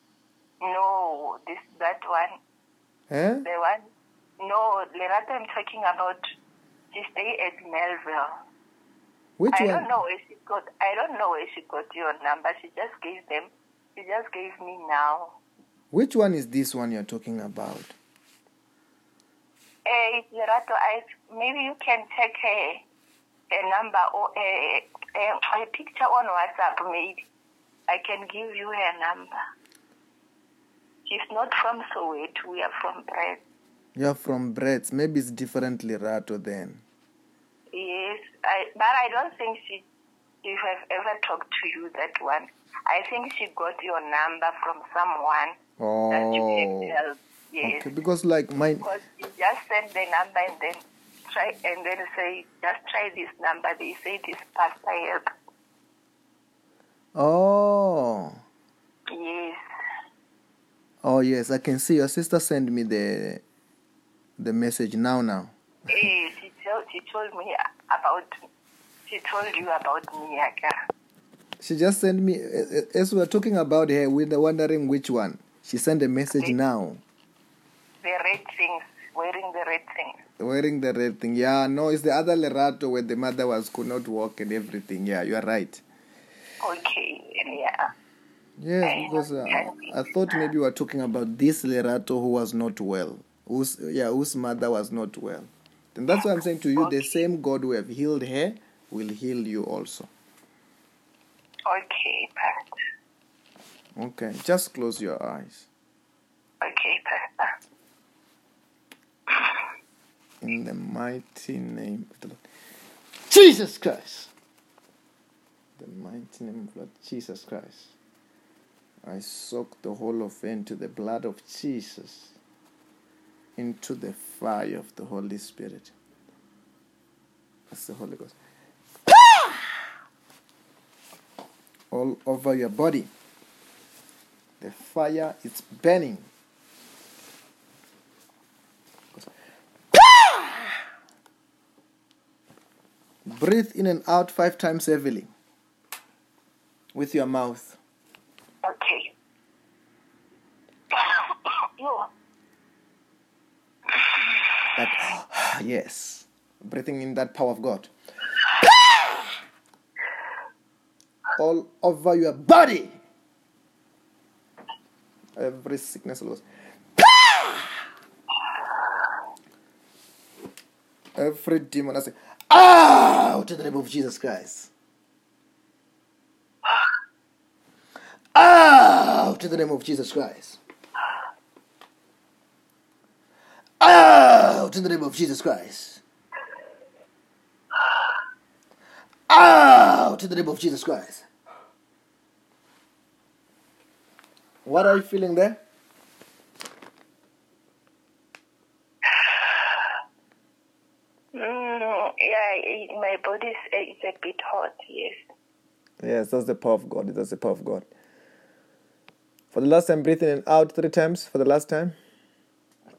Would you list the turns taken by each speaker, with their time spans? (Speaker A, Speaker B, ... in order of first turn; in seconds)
Speaker A: 0.6-2.4, 3.4-3.9, 4.4-6.2, 6.9-8.4, 9.5-15.4, 19.9-22.9, 23.5-27.2, 27.9-29.3, 31.1-33.4, 37.7-39.9, 40.4-45.6, 46.1-47.9, 48.8-55.2, 59.1-59.6, 65.9-68.3, 69.1-70.8, 78.0-80.2, 86.6-87.9, 88.8-90.5, 96.8-97.1, 101.7-102.8, 106.6-107.5, 109.3-109.6, 148.6-149.2, 150.9-152.1, 201.3-205.2
Speaker B: 3.1-3.5, 9.4-9.9, 15.9-18.0, 34.0-36.9, 45.8-47.0, 47.6-48.9, 57.1-58.4, 61.0-63.4, 64.4-65.5, 71.6-77.0, 80.4-85.8, 88.6-100.1, 104.0-105.7, 110.4-112.4, 113.3-114.3, 115.8-118.0, 119.0-122.4, 123.6-125.9, 127.7-128.4, 129.1-129.5, 131.9-133.1, 134.6-136.3, 139.9-140.4, 143.2-145.3, 146.9-147.8, 154.8-157.9, 161.4-163.0, 165.4-166.4, 167.0-167.5, 171.2-174.7, 178.3-180.6, 183.8-186.0, 189.3-191.2, 194.6-195.6, 206.0-207.9, 209.5-212.0